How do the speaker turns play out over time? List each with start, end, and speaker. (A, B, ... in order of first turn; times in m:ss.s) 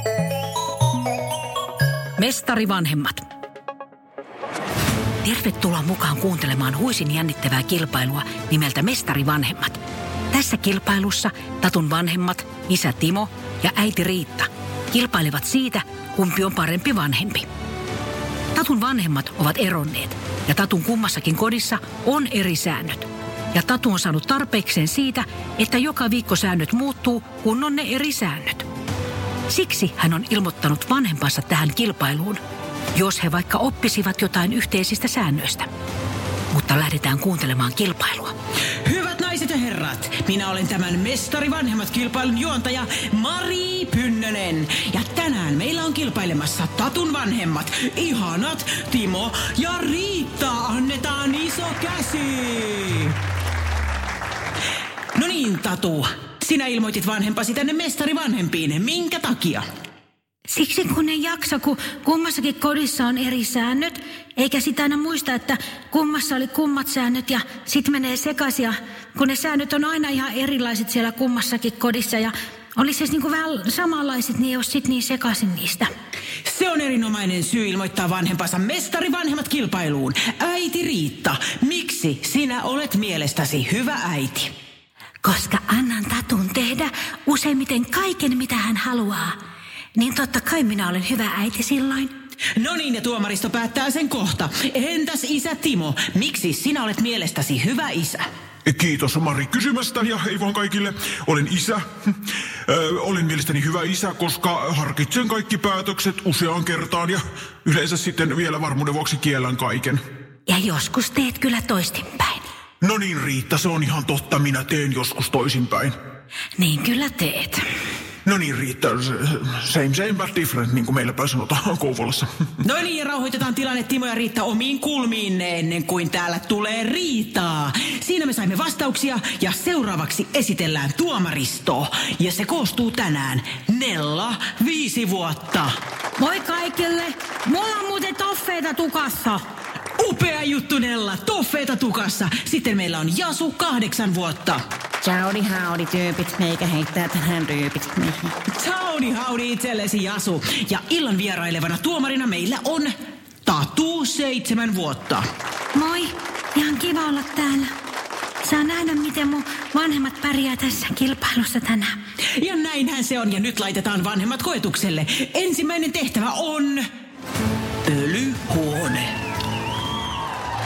0:02.2-0:03.2 A
0:05.2-0:09.8 A
0:10.3-0:17.5 A
0:18.5-0:28.6 A
0:29.5-0:32.4 A
0:32.9-0:35.7 A
0:36.5-0:38.3 A
0:38.8-0:53.2 B
0:55.1-0:59.6 B
1:00.5-1:15.9 C
1:16.4-1:24.5 B
1:25.4-1:29.3 A
1:27.3-1:29.0 C
1:30.0-1:32.1 A
1:30.8-1:31.7 C
1:32.6-1:38.3 B
1:38.6-1:41.8 D
1:42.7-1:50.0 D
1:50.5-1:52.4 A
1:51.3-1:52.0 C
1:52.8-1:55.9 D
1:56.6-1:57.5 A
1:58.2-2:02.3 D
2:02.6-2:15.8 B
2:16.2-2:19.4 C
2:20.0-2:25.6 B
2:25.0-2:28.3 E
2:28.5-2:32.9 B
2:33.4-2:35.2 B
2:35.7-2:37.7 C
2:38.4-2:42.0 C
2:42.4-2:46.8 B
2:47.8-2:49.1 B